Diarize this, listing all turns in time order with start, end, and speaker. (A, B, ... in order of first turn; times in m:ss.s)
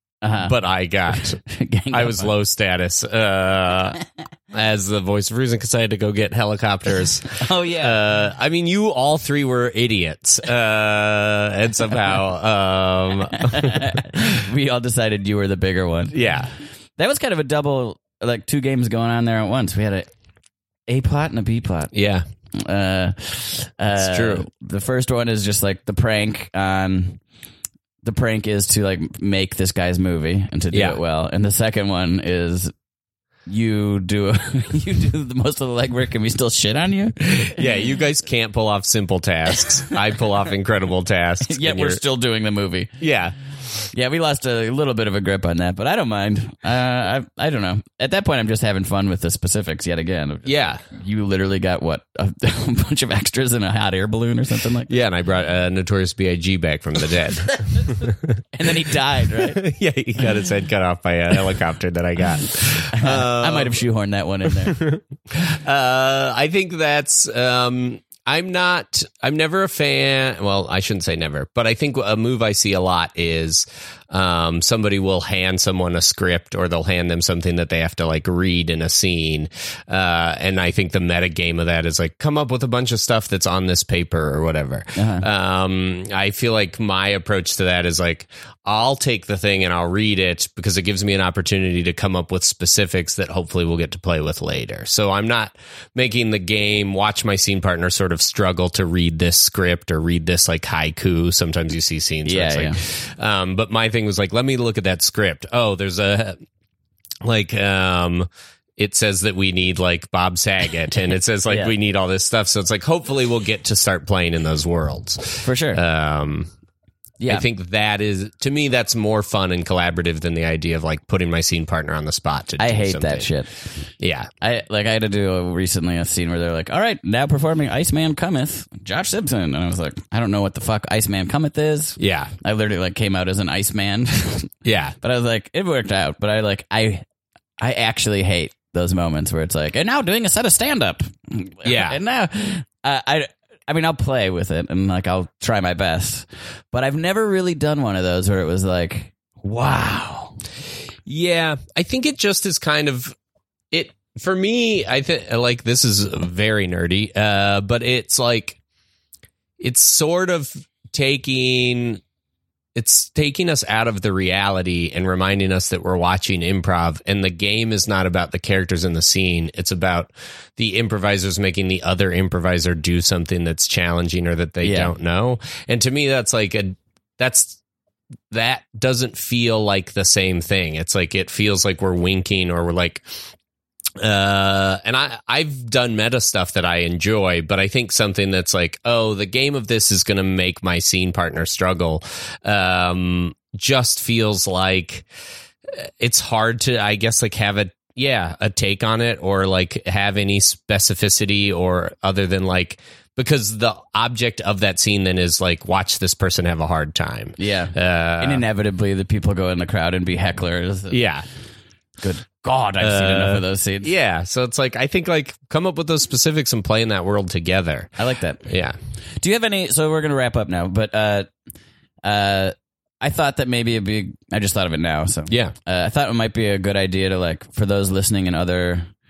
0:00.2-0:00.5 A
0:00.4-0:01.4 B
0:01.1-0:02.3 A
0:01.9-0:14.2 B
0:07.3-0:08.0 A
0:13.4-0:16.2 A
0:16.1-0:16.5 B
0:17.0-0:20.1 A
0:20.9-0:21.9 A
0:21.9-0:22.2 B
0:22.5-0:27.2 A
0:24.0-0:24.5 B
0:28.0-0:32.7 A
0:30.7-0:31.0 B
0:33.4-0:37.7 A
0:37.4-0:42.0 B
0:41.4-0:42.9 A
0:43.0-0:43.4 B
0:43.9-0:54.9 A
0:50.4-0:50.8 B
0:54.9-0:58.4 B
0:58.5-0:59.6 A
0:59.3-1:03.8 B
1:02.8-1:04.8 A
1:04.5-1:46.4 B
1:25.0-1:25.2 A
1:42.2-1:42.8 A
1:47.2-1:56.5 B
1:51.5-1:51.7 A
1:55.4-1:55.8 A
1:57.2-1:57.4 A
1:57.3-2:03.3 B
2:02.6-2:03.7 A
2:04.0-2:04.3 B
2:04.4-2:17.0 A
2:12.0-2:12.3 B
2:14.6-2:15.0 B
2:17.6-2:30.4 A
2:21.6-2:22.0 B
2:31.0-2:33.2 B
2:33.7-2:38.6 B
2:39.6-2:42.0 B
2:42.7-2:57.6 B
2:54.6-2:54.9 A
2:58.3-3:03.0 B
3:04.0-3:15.1 B
3:15.7-3:28.4 B
3:27.4-3:31.0 A
3:30.9-3:31.3 B
3:32.0-3:33.9 A
3:32.8-3:38.8 B
3:38.0-3:38.5 A
3:39.2-3:41.3 A
3:42.0-3:48.9 A
3:45.3-3:45.5 B